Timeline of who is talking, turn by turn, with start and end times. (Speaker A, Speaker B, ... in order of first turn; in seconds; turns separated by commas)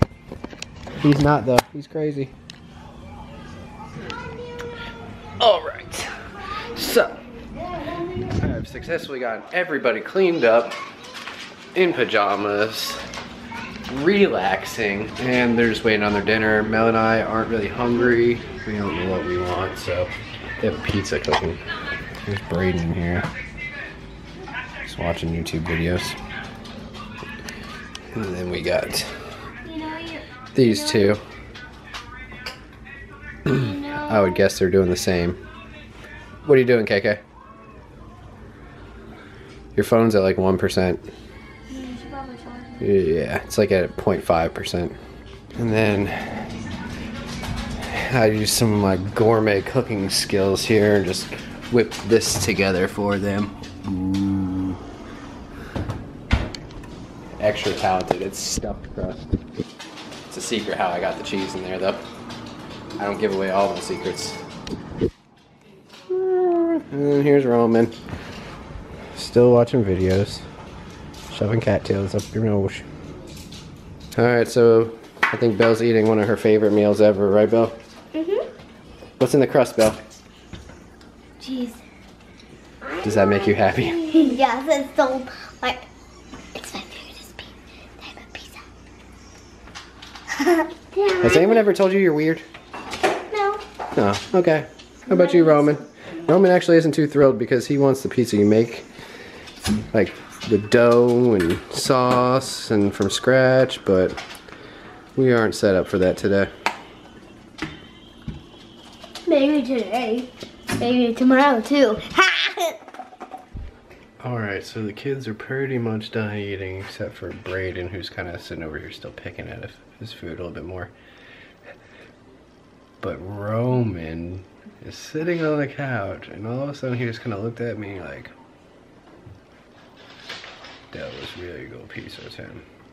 Speaker A: 1.0-2.3, Speaker A: 5.4-7.2, Speaker A: 8.4-10.8, Speaker A: 11.7-13.0, Speaker A: 13.9-21.6, Speaker A: 22.2-23.3, Speaker A: 24.8-26.2, Speaker A: 28.1-29.2, Speaker B: 29.6-31.1, Speaker A: 30.5-31.2, Speaker B: 33.5-34.5, Speaker A: 33.5-35.4, Speaker A: 36.4-37.2, Speaker A: 39.7-41.0, Speaker B: 41.7-42.7, Speaker A: 42.8-44.9, Speaker A: 45.5-46.5, Speaker A: 47.8-54.8, Speaker A: 57.4-59.3, Speaker A: 60.3-62.0, Speaker A: 63.0-64.4, Speaker A: 66.1-67.9, Speaker A: 69.1-70.4, Speaker A: 71.3-72.8, Speaker A: 74.1-77.8, Speaker B: 78.1-78.5, Speaker A: 79.2-80.0, Speaker B: 81.4-81.8, Speaker B: 82.8-85.8, Speaker A: 83.0-84.0, Speaker B: 86.5-88.6, Speaker B: 90.3-91.7, Speaker A: 91.2-92.4, Speaker B: 93.3-93.6, Speaker A: 93.9-98.9, Speaker B: 95.1-95.8, Speaker A: 99.9-104.2, Speaker A: 105.2-106.5, Speaker B: 109.2-112.8, Speaker A: 114.2-120.9, Speaker A: 123.0-128.3, Speaker A: 130.9-132.6